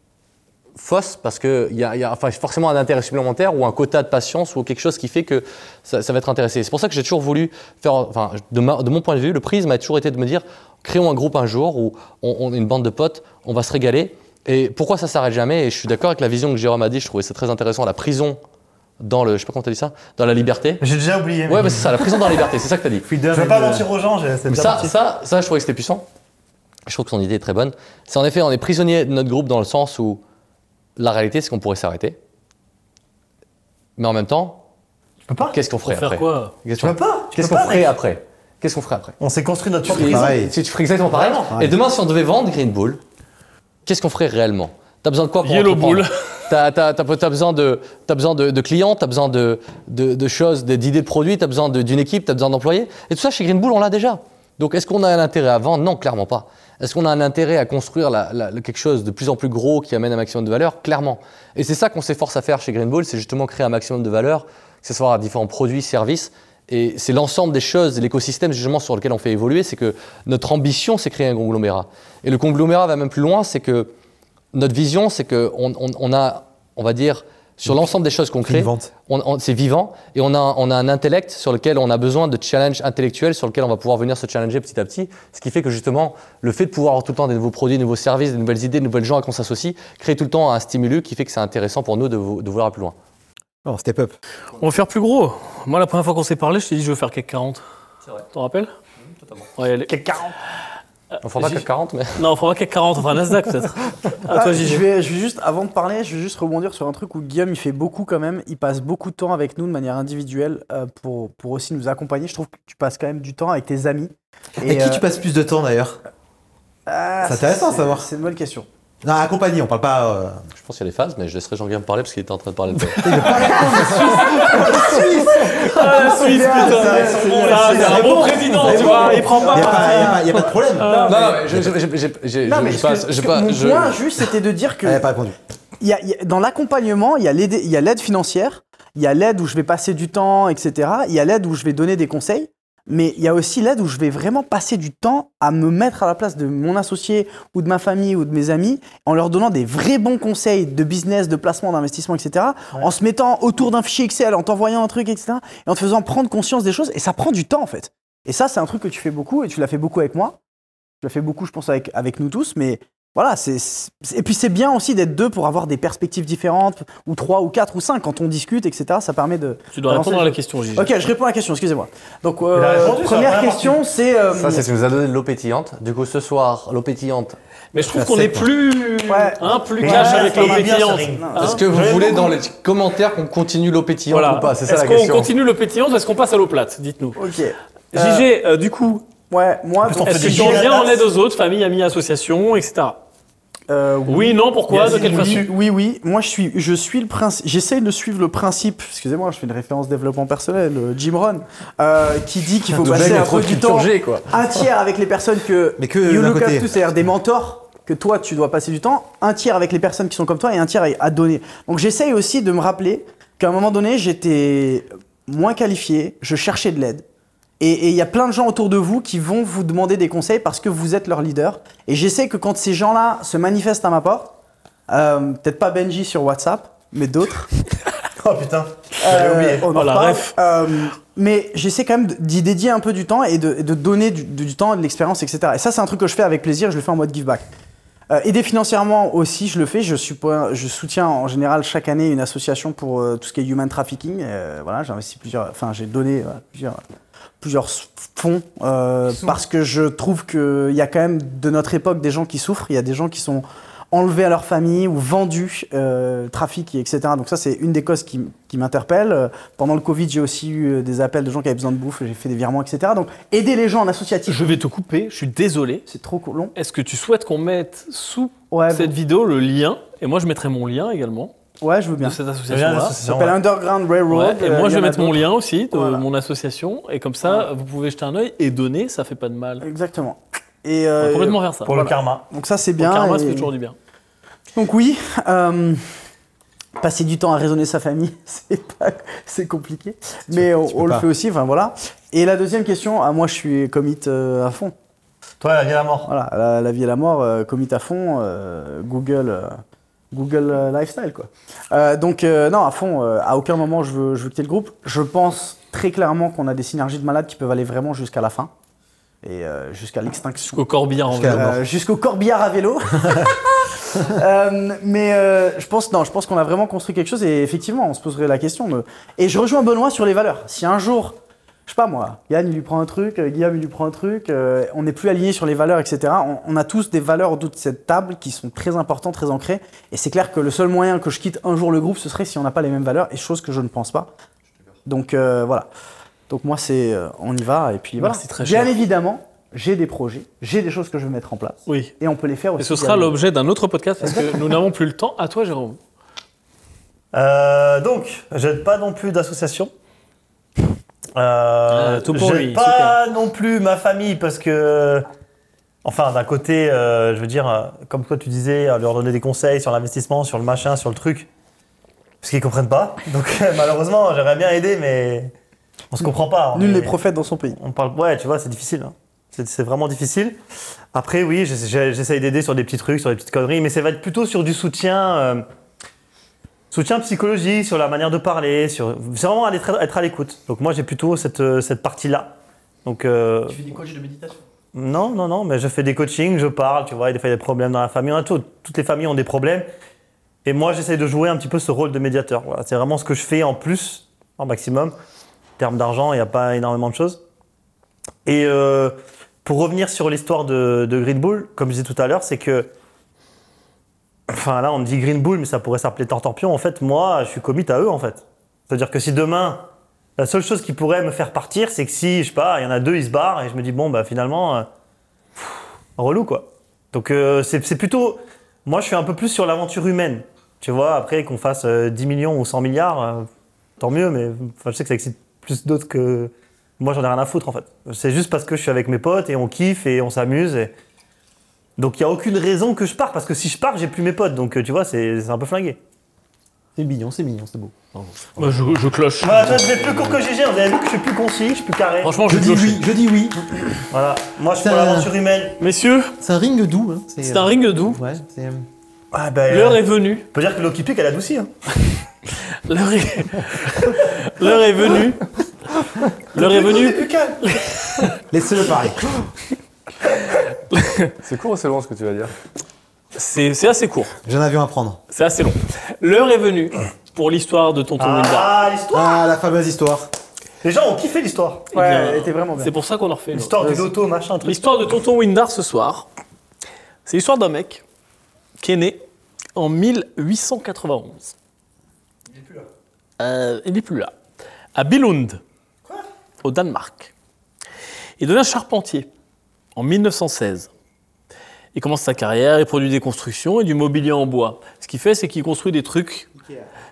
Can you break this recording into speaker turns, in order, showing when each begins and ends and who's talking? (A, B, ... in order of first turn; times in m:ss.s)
0:00.7-0:18.4 A
0:19.0-0:20.8 A
0:20.8-0:22.4 B
0:21.5-0:23.1 A
0:23.1-0:24.9 B
0:23.3-0:23.8 C
0:24.5-0:26.0 A
0:26.8-0:30.2 A
0:31.0-0:32.2 A
0:34.0-0:34.6 A
0:35.3-0:35.6 B
0:35.4-0:39.2 A
0:35.8-0:36.5 D
0:36.8-0:37.9 B
0:39.2-0:40.4 B
0:39.9-0:43.0 A
0:39.9-0:40.5 C
0:41.1-0:41.4 B
0:41.5-0:41.7 C
0:43.8-1:13.9 A
0:45.4-0:46.5 D
1:14.5-1:32.9 A
1:18.4-1:18.9 C
1:33.6-1:34.2 C
1:34.6-1:37.6 D
1:38.3-1:38.7 D
1:39.6-1:39.9 D
1:39.9-1:40.3 B
1:41.2-1:42.2 A
1:41.4-1:41.6 D
1:42.2-1:44.8 D
1:44.3-1:55.0 E
1:54.6-1:56.0 C
1:56.9-1:58.7 E
1:57.2-1:58.1 C
1:59.0-2:00.4 C
2:00.5-2:03.5 A
2:03.0-2:11.0 C
2:03.0-2:11.4 D
2:03.2-2:11.4 E
2:07.7-2:08.9 A
2:11.0-2:14.2 A
2:12.4-2:15.0 E
2:14.8-2:15.3 C
2:15.8-2:40.4 E
2:41.0-2:54.6 E
2:49.7-2:50.9 D
2:52.5-2:53.8 B
2:54.3-2:57.4 A
2:57.7-3:01.6 D
2:57.9-2:58.5 C
2:59.1-3:00.7 E
2:59.8-3:02.4 B
3:01.2-3:01.6 E
3:01.4-3:05.3 A
3:04.1-3:07.2 D
3:07.2-3:08.3 E
3:07.9-3:09.0 D
3:09.3-3:10.9 E
3:09.8-3:10.9 B
3:10.0-3:13.0 D
3:13.7-3:37.0 E
3:14.0-3:15.5 D
3:14.7-3:15.5 B
3:22.7-3:24.6 A
3:25.8-3:26.9 C
3:37.6-3:44.4 E
3:44.9-3:47.5 E
3:48.2-3:49.7 B
3:49.0-3:57.5 E
3:49.7-3:50.3 D
3:58.1-4:06.8 E
4:07.4-4:24.5 E
4:24.3-4:25.8 D
4:25.8-4:26.5 E
4:26.5-4:31.3 D
4:28.5-4:28.9 E
4:31.6-4:32.2 E
4:32.0-4:33.0 D
4:32.5-4:33.4 B
4:33.0-4:36.0 E
4:34.1-4:39.6 D
4:39.6-4:41.4 E
4:41.0-4:42.0 D
4:41.6-4:42.2 B
4:42.3-4:43.5 E
4:42.8-4:43.8 D
4:44.5-4:45.8 E
4:46.8-4:54.7 E
4:50.3-4:51.1 C
4:55.4-4:56.1 B
4:56.1-4:59.6 E
5:00.1-5:08.5 E
5:09.2-5:10.6 E
5:10.5-5:11.6 D
5:11.1-5:11.6 C
5:11.3-5:34.1 E
5:34.8-5:35.7 E
5:36.3-5:43.1 E
5:38.0-5:38.8 D
5:41.6-5:41.9 D
5:42.6-5:45.8 D
5:44.0-5:44.4 E
5:47.1-5:49.7 B
5:51.1-5:55.1 B
5:51.7-5:53.0 D
5:55.8-6:01.3 B
6:02.2-6:05.3 B
6:05.9-6:07.0 B
6:06.5-6:07.6 E
6:07.6-6:10.4 B
6:10.9-6:15.4 B
6:16.7-6:23.9 B
6:24.7-6:29.6 B
6:30.4-6:34.9 B
6:35.6-6:37.2 B
6:38.2-6:42.7 B
6:44.3-6:54.7 B
6:55.4-7:03.3 B
7:03.8-7:10.7 B
7:11.8-7:15.8 B
7:16.8-7:17.7 C
7:18.0-7:20.1 D
7:19.2-7:22.2 B
7:22.0-7:22.9 D
7:22.3-7:23.4 C
7:23.9-7:25.6 B
7:24.6-7:25.1 C
7:25.6-7:26.1 D
7:26.2-7:28.7 C
7:27.2-7:28.0 D
7:29.1-7:31.5 B
7:29.5-7:30.3 D
7:32.6-7:35.2 D
7:36.3-7:38.2 D
7:36.3-7:37.6 B
7:38.3-7:39.1 C
7:40.7-7:41.1 D
7:41.2-7:42.3 A
7:43.1-7:44.1 D
7:44.2-7:45.0 C
7:45.1-7:48.6 D
7:48.0-7:49.2 B
7:48.9-7:50.1 C
7:50.6-7:51.7 B
7:51.7-7:52.7 E
7:51.7-7:53.9 D
7:53.3-7:54.6 B
7:54.4-7:56.1 D
7:57.0-7:57.8 D
7:58.6-7:59.0 D
7:59.6-8:01.4 D
8:03.2-8:04.1 D
8:04.7-8:05.4 D
8:06.4-8:07.1 D
8:08.2-8:09.1 D
8:09.8-8:10.7 D
8:11.7-8:16.3 D